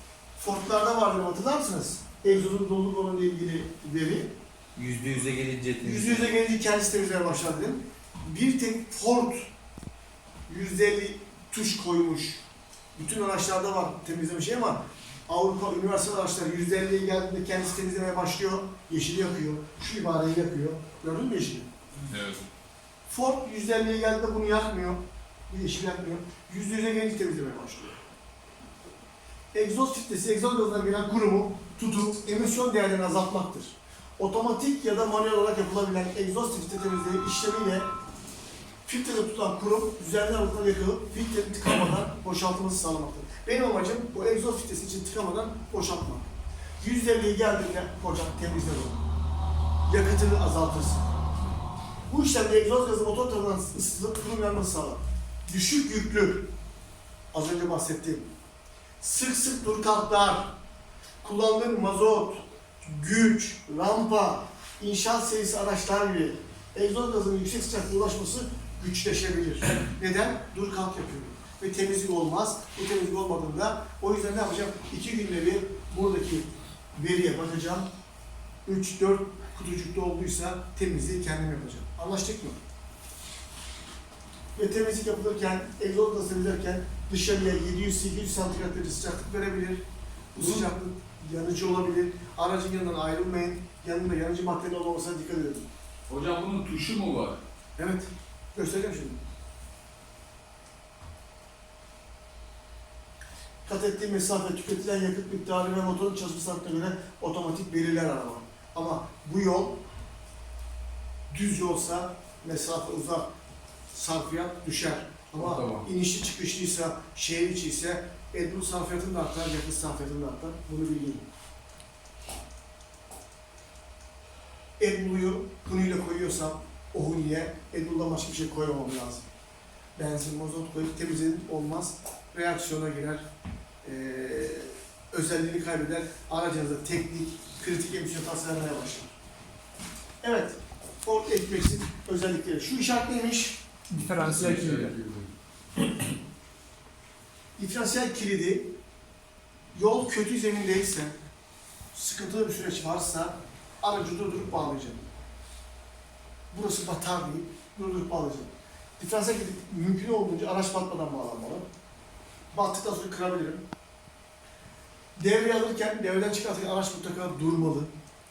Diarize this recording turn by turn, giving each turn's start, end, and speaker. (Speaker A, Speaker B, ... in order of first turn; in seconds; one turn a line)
Speaker A: 0.4-4.3
Speaker B: 4.8-6.3
Speaker A: 5.8-9.5
Speaker A: 10.5-12.4
Speaker A: 13.0-21.7
Speaker C: 22.1-22.4
Speaker A: 23.1-27.9
Speaker A: 29.5-37.9
Speaker A: 38.9-49.0
Speaker A: 49.9-51.1
Speaker A: 52.1-56.5
Speaker A: 57.3-58.3
Speaker A: 59.0-60.6
Speaker A: 61.2-77.9
Speaker A: 78.7-82.6
Speaker A: 84.6-95.7
Speaker C: 96.1-97.4
Speaker A: 97.8-99.2
Speaker A: 103.7-109.8
Speaker A: 111.3-113.3
Speaker A: 113.9-121.3
Speaker B: 115.4-115.8
Speaker A: 124.8-129.3
Speaker A: 130.0-133.3
Speaker A: 133.8-139.1
Speaker A: 140.2-143.7
Speaker B: 144.2-145.2
Speaker C: 144.2-145.2
Speaker A: 147.6-148.7
Speaker A: 149.7-151.2
Speaker A: 151.9-155.0
Speaker A: 156.5-161.7
Speaker A: 162.5-163.7
Speaker A: 165.2-167.9